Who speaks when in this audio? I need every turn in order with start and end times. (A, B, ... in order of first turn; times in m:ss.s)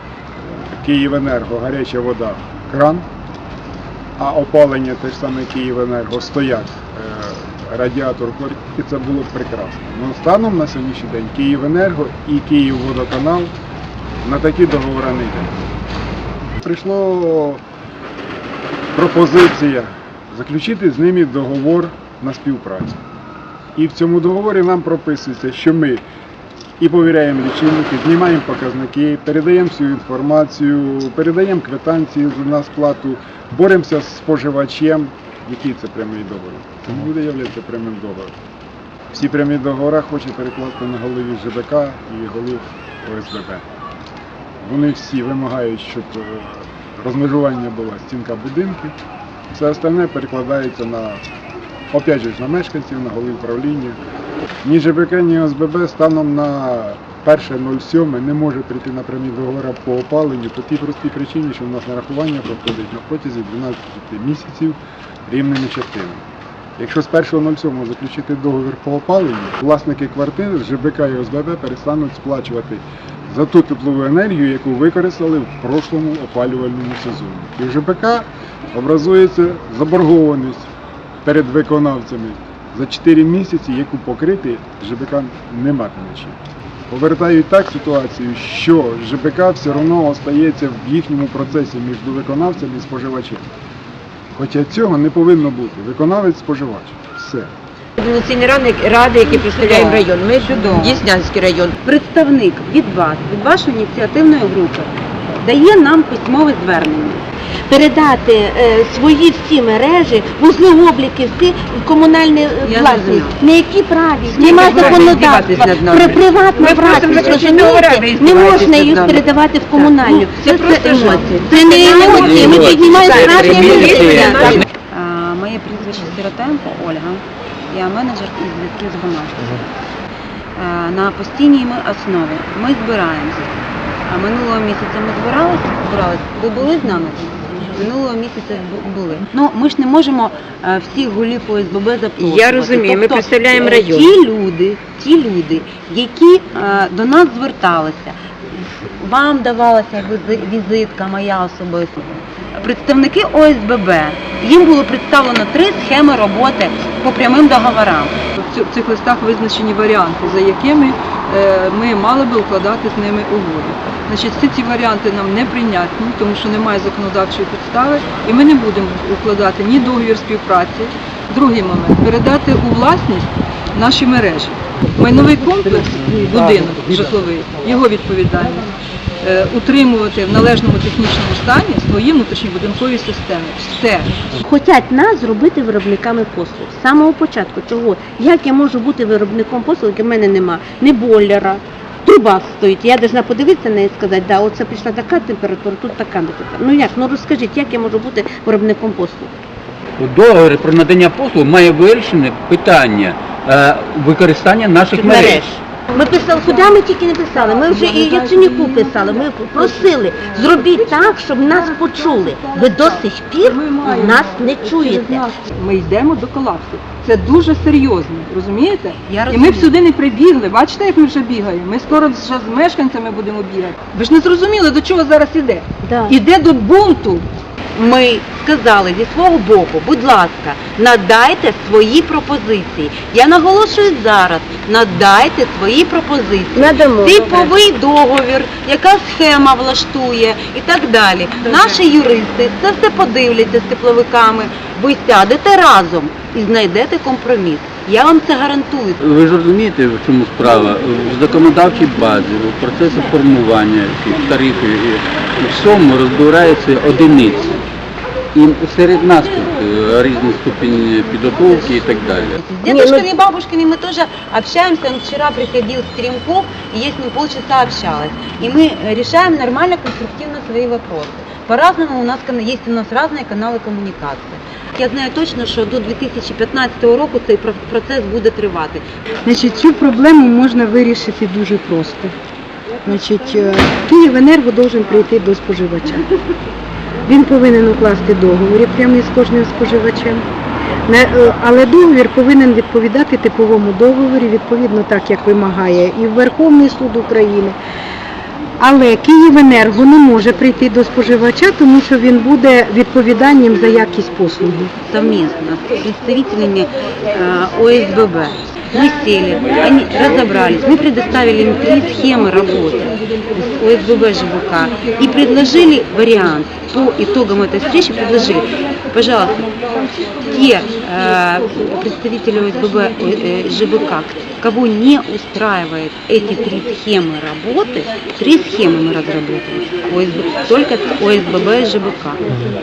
0:00.4-0:03.1 A
0:04.2-0:13.5 A
0:14.2-0:15.6 A
0:16.6-0:17.6 A
0:18.9-0:23.0 A
0:23.8-0:26.0 A
0:26.8-0:38.3 A
0:39.1-0:43.6 A
0:44.6-0:49.0 A
0:49.5-0:51.2 A
0:51.9-0:54.0 A
0:54.6-1:06.2 A
1:06.8-1:20.7 A
1:21.2-1:26.4 A
1:26.9-1:33.4 A
1:34.3-1:37.5 A
1:38.0-1:41.7 B
1:39.1-1:41.0 C
1:41.8-1:47.2 C
1:47.7-2:04.6 D
1:52.6-1:53.4 C
1:54.3-2:09.6 C
1:56.8-1:58.5 B
2:02.1-2:04.4 E
2:02.7-2:04.6 B
2:10.6-2:13.5 C
2:14.1-2:38.2 C
2:22.2-2:24.1 B
2:38.4-2:58.7 F
2:59.2-3:04.2 F
3:04.4-3:19.3 D
3:20.0-3:25.5 E
3:24.9-3:35.2 D
3:26.2-3:26.8 F
3:27.3-3:47.3 F
3:39.1-3:39.8 C
3:45.8-3:46.1 D
3:47.8-4:09.0 C
3:56.6-3:57.5 D
4:09.0-4:17.6 E
4:18.3-4:22.4 E
4:22.4-4:38.8 C
4:22.7-4:23.0 D
4:39.2-4:42.1 G
4:42.8-4:46.0 G
4:47.1-4:50.2 G
4:50.9-4:57.6 G
4:58.6-5:04.7 G
5:04.8-5:19.4 C
5:20.3-5:32.2 C